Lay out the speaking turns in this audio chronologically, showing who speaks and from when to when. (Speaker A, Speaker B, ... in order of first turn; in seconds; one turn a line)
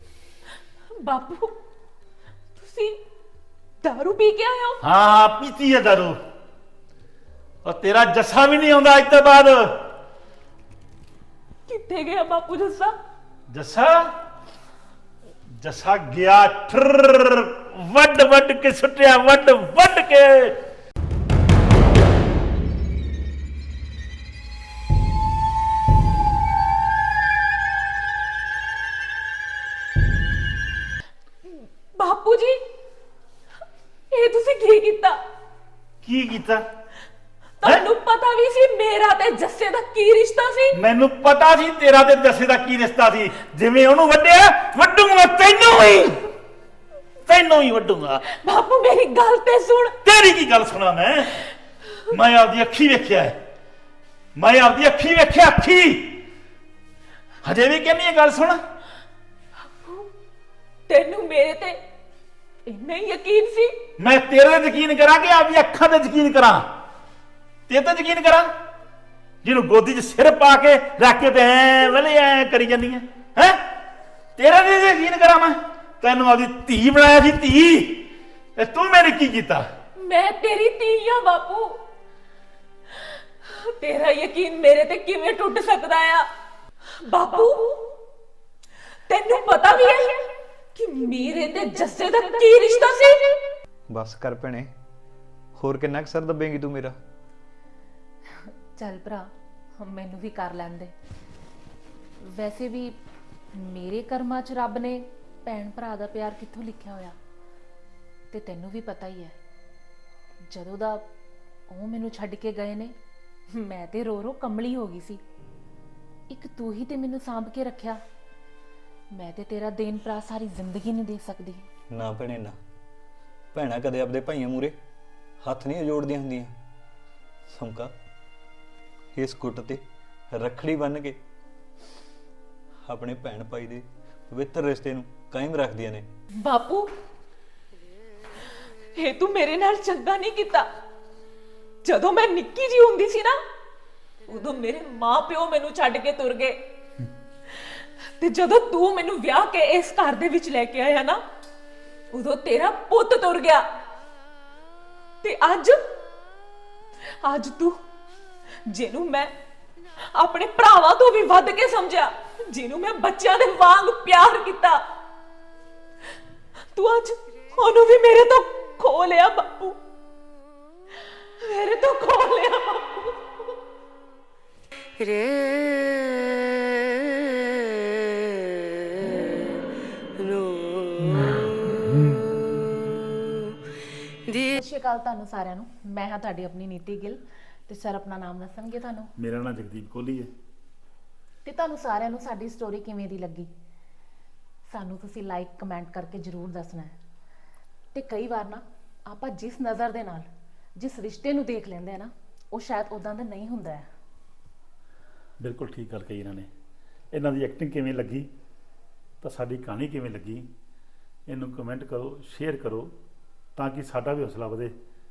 Speaker A: 0.9-1.6
Speaker A: 2.5-3.0
Speaker A: 3.8-4.8
Speaker B: 4.8-6.2
Speaker B: 7.6-9.8
Speaker A: 11.7-12.9
Speaker B: 13.5-14.2
Speaker B: 15.6-20.6
Speaker A: 31.4-32.6
Speaker A: 34.1-35.2
Speaker B: 36.0-36.6
Speaker A: 37.6-40.8
Speaker B: 40.7-46.2
Speaker B: 47.2-48.2
Speaker A: 48.2-50.0
Speaker B: 50.0-51.5
Speaker B: 52.1-53.4
Speaker B: 54.4-56.2
Speaker B: 57.4-58.6
Speaker A: 59.7-60.1
Speaker A: 60.9-61.8
Speaker A: 62.6-63.9
Speaker B: 64.0-66.7
Speaker B: 67.7-68.5
Speaker B: 69.4-73.7
Speaker B: 74.4-79.7
Speaker A: 80.0-81.8
Speaker A: 83.0-86.3
Speaker A: 86.9-87.9
Speaker A: 89.1-93.4
Speaker C: 93.9-94.7
Speaker C: 95.5-97.0
Speaker A: 98.4-100.9
Speaker A: 102.2-103.0
Speaker A: 103.5-107.2
Speaker A: 108.3-109.3
Speaker A: 110.5-111.1
Speaker A: 111.7-113.0
Speaker A: 113.5-115.2
Speaker A: 116.3-118.0
Speaker A: 119.1-121.7
Speaker C: 121.9-122.6
Speaker C: 123.5-124.8
Speaker C: 125.4-126.5
Speaker C: 127.5-127.9
Speaker C: 129.1-131.2
Speaker C: 132.8-136.1
Speaker A: 136.4-136.9
Speaker A: 138.9-140.7
Speaker A: 141.8-143.4
Speaker A: 144.3-146.6
Speaker A: 147.6-151.2
Speaker A: 152.1-153.7
Speaker A: 155.2-155.9
Speaker A: 157.0-157.8
Speaker A: 158.6-159.3
Speaker A: 160.0-164.8
Speaker A: 166.7-169.8
Speaker A: 171.4-173.3
Speaker A: 184.3-189.1
Speaker B: 189.2-190.3
Speaker A: 191.4-193.5
Speaker A: 194.7-196.9
Speaker A: 197.9-203.9
Speaker B: 205.4-206.5
Speaker B: 207.1-208.3
Speaker B: 209.2-210.5
Speaker B: 211.3-212.9
Speaker B: 213.6-214.7